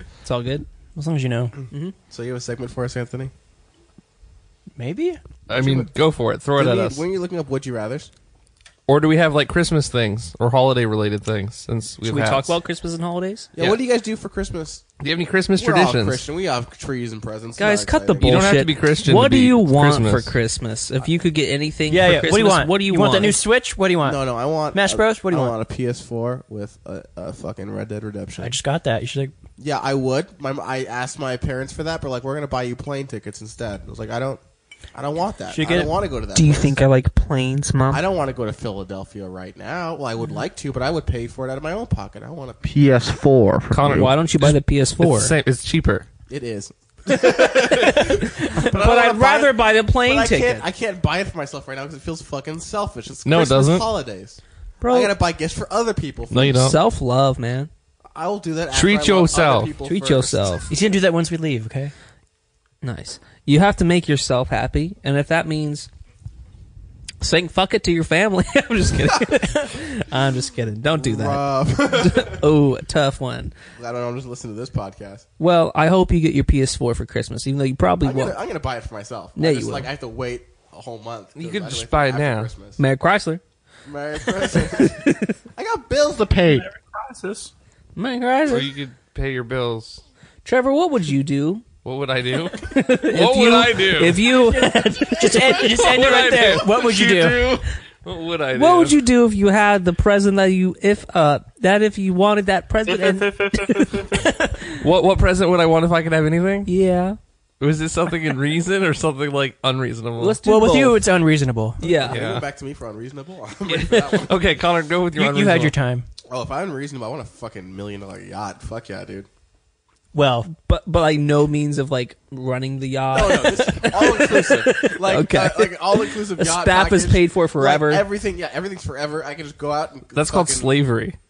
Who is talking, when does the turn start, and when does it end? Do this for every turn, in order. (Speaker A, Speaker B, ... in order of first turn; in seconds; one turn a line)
Speaker A: 0.2-0.7
Speaker B: 0.9-1.5
Speaker A: 1.7-1.9
Speaker C: 2.1-3.3
Speaker B: 4.8-5.2
Speaker D: 5.5-7.0
Speaker C: 5.5-5.9
Speaker C: 6.6-8.1
Speaker D: 8.9-12.6
Speaker A: 12.1-13.5
Speaker C: 13.6-14.8
Speaker D: 15.0-16.3
Speaker C: 15.6-18.4
Speaker A: 17.6-23.4
Speaker D: 18.2-20.4
Speaker B: 21.9-25.6
Speaker C: 24.0-28.6
Speaker B: 28.4-29.3
Speaker C: 29.6-34.4
Speaker C: 34.9-36.9
Speaker B: 35.5-36.0
Speaker A: 35.8-38.0
Speaker C: 37.9-43.8
Speaker D: 43.7-46.1
Speaker A: 43.9-45.3
Speaker C: 46.3-56.7
Speaker A: 47.9-50.7
Speaker D: 53.2-53.9
Speaker A: 54.8-55.1
Speaker D: 56.3-56.8
Speaker A: 56.5-57.7
Speaker C: 58.1-60.8
Speaker D: 58.7-59.7
Speaker A: 59.9-60.7
Speaker B: 60.7-61.9
Speaker A: 62.8-65.9
Speaker A: 67.2-73.5
Speaker C: 70.9-72.5
Speaker C: 73.8-75.3
Speaker A: 75.4-78.4
Speaker C: 78.0-82.8
Speaker A: 79.4-79.9
Speaker D: 81.4-82.5
Speaker A: 82.8-83.4
Speaker C: 83.8-86.7
Speaker A: 84.3-85.4
Speaker E: 86.4-87.5
Speaker A: 88.0-88.7
Speaker D: 88.5-90.0
Speaker A: 90.5-91.6
Speaker D: 91.8-94.3
Speaker A: 92.5-96.6
Speaker B: 94.2-97.5
Speaker D: 95.2-99.0
Speaker A: 98.5-104.0
Speaker E: 102.9-104.3
Speaker D: 104.8-106.7
Speaker A: 106.7-107.2
Speaker D: 107.6-110.4
Speaker A: 110.2-111.0
Speaker B: 110.5-111.8
Speaker A: 111.8-112.2
Speaker C: 111.8-114.3
Speaker D: 112.1-112.5
Speaker A: 113.7-114.2
Speaker D: 114.2-115.8
Speaker B: 115.2-116.1
Speaker C: 116.3-119.3
Speaker B: 120.1-120.5
Speaker A: 120.5-128.1
Speaker C: 123.1-130.7
Speaker D: 130.2-131.2